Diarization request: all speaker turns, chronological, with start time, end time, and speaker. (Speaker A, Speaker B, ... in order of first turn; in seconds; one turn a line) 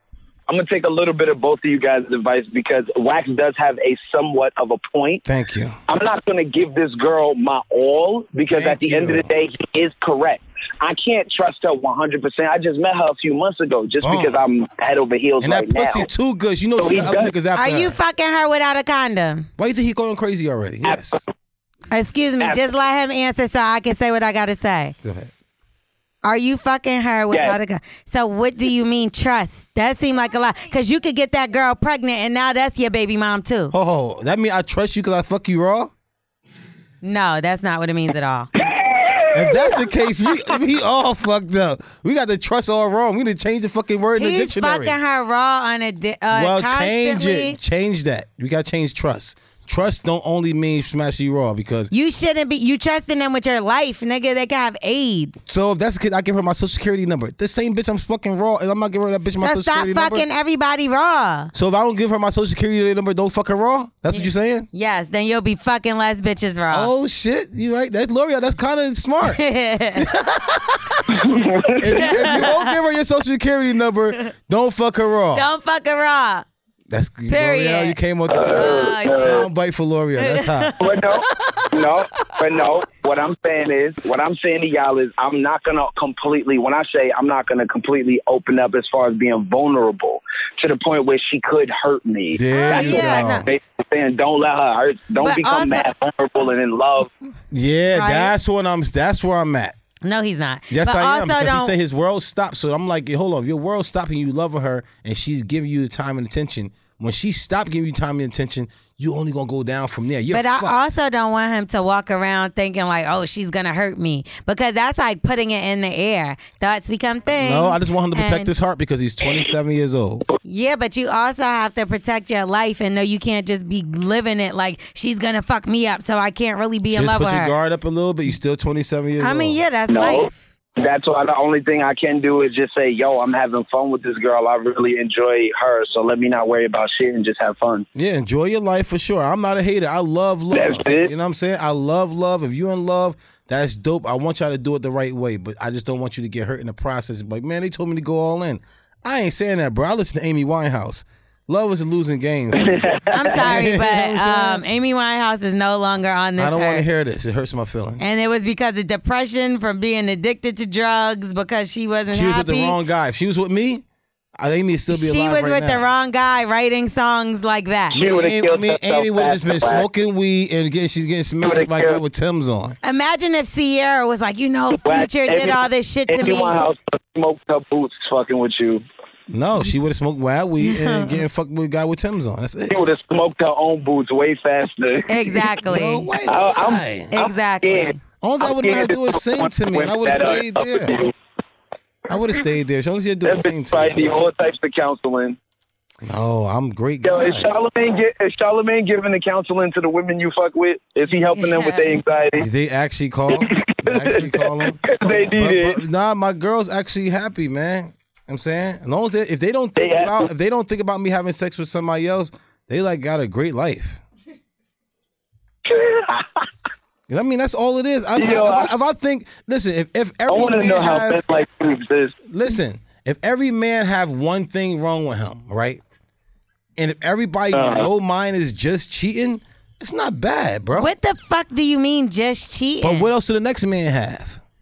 Speaker A: 0.5-5.2
Speaker B: 5.2-5.8
Speaker A: 5.9-16.1
Speaker B: 8.5-9.3
Speaker B: 14.0-14.4
Speaker B: 15.4-18.0
Speaker A: 16.8-17.3
Speaker C: 17.6-19.5
Speaker B: 19.6-21.2
Speaker A: 20.9-21.2
Speaker C: 21.9-24.9
Speaker B: 25.0-25.3
Speaker C: 26.2-33.7
Speaker A: 27.3-27.6
Speaker B: 33.7-35.9
Speaker C: 37.0-38.5
Speaker A: 38.6-39.9
Speaker B: 39.3-45.0
Speaker C: 44.2-47.6
Speaker B: 46.3-51.9
Speaker C: 51.9-55.4
Speaker B: 55.5-60.3
Speaker C: 59.4-61.5
Speaker B: 61.5-64.7
Speaker C: 64.1-66.9
Speaker B: 66.7-69.4
Speaker C: 69.2-70.1
Speaker B: 70.0-71.2
Speaker A: 71.1-72.2
Speaker B: 71.8-75.5
Speaker C: 71.8-72.8
Speaker C: 75.3-76.5
Speaker B: 76.9-81.7
Speaker C: 77.3-79.5
Speaker A: 78.3-79.5
Speaker C: 80.2-80.8
Speaker A: 80.8-97.1
Speaker B: 92.3-93.5
Speaker C: 92.5-93.5
Speaker C: 95.2-95.9
Speaker B: 97.5-99.8
Speaker C: 97.9-98.3
Speaker C: 100.0-101.8
Speaker B: 100.7-110.9
Speaker C: 110.3-118.5
Speaker B: 117.3-120.2
Speaker C: 120.4-127.5
Speaker B: 126.9-129.6
Speaker C: 129.2-130.4
Speaker A: 129.9-137.9
Speaker B: 137.9-154.6
Speaker A: 140.5-141.1
Speaker A: 152.6-153.4
Speaker C: 153.1-156.9
Speaker B: 156.4-158.0
Speaker C: 158.0-162.8
Speaker B: 162.1-163.8
Speaker B: 164.4-165.9
Speaker C: 164.9-168.1
Speaker A: 167.9-169.9
Speaker B: 168.0-172.8
Speaker A: 171.4-172.0
Speaker C: 172.8-176.6
Speaker A: 174.8-178.8
Speaker B: 179.3-182.8
Speaker C: 180.6-181.2
Speaker A: 182.7-185.5
Speaker C: 185.1-186.1
Speaker B: 185.7-187.2
Speaker A: 186.3-191.1
Speaker C: 187.1-188.0
Speaker B: 188.2-190.9
Speaker B: 192.1-194.0
Speaker A: 193.2-195.4
Speaker B: 196.0-197.5
Speaker A: 197.0-202.5
Speaker C: 201.4-201.9
Speaker B: 202.4-204.8
Speaker A: 203.3-205.8
Speaker B: 205.3-214.0
Speaker A: 209.8-210.3
Speaker A: 215.7-216.3
Speaker B: 217.1-221.2
Speaker A: 218.2-218.7
Speaker A: 220.3-222.2
Speaker B: 222.3-225.8
Speaker B: 226.8-230.9
Speaker A: 227.5-227.9
Speaker C: 230.8-233.1
Speaker B: 232.8-234.4